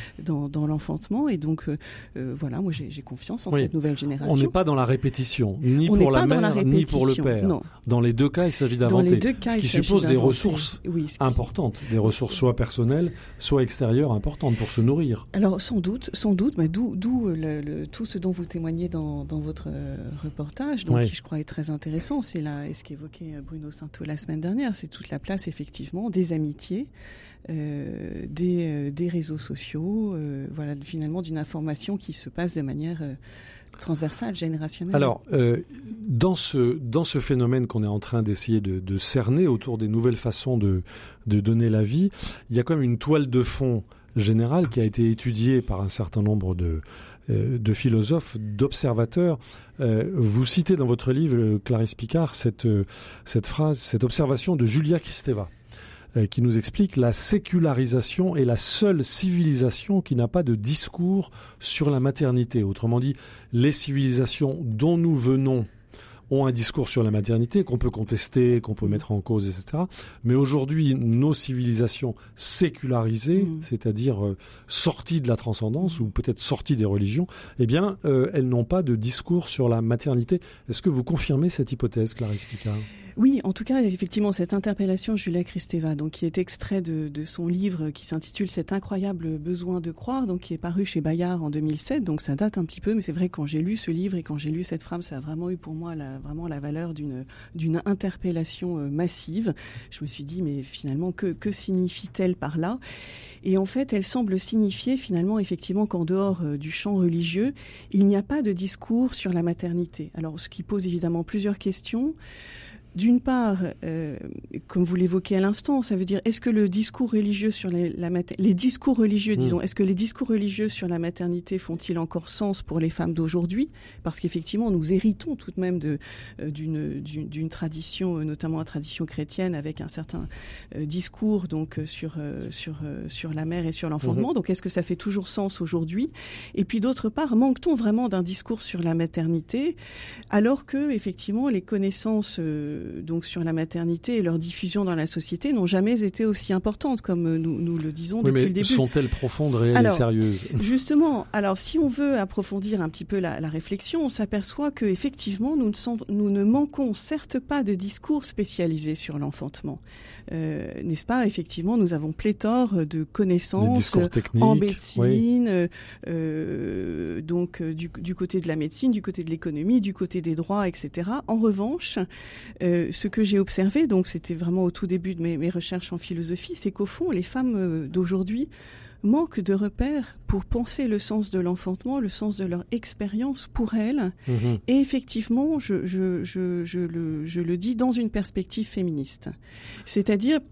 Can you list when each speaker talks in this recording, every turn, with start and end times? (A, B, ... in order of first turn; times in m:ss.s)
0:00.2-0:04.6 A
0:03.5-0:15.3 B
0:05.8-0:07.7 A
0:08.8-0:11.4 A
0:15.3-0:26.9 A
0:27.5-0:33.2 A
0:33.8-0:35.2 A
0:34.9-0:55.5 B
0:56.2-1:05.7 B
1:06.3-1:22.9 B
1:23.2-1:42.8 A
1:43.4-1:52.2 A
1:52.9-2:19.8 A
2:20.3-2:28.9 A
2:28.2-2:30.6 B
2:29.7-2:39.8 A
2:40.3-2:52.0 A
2:43.6-2:45.2 B
2:52.6-2:58.5 A
2:59.0-3:09.3 A
3:04.3-3:04.6 B
3:09.9-3:10.4 A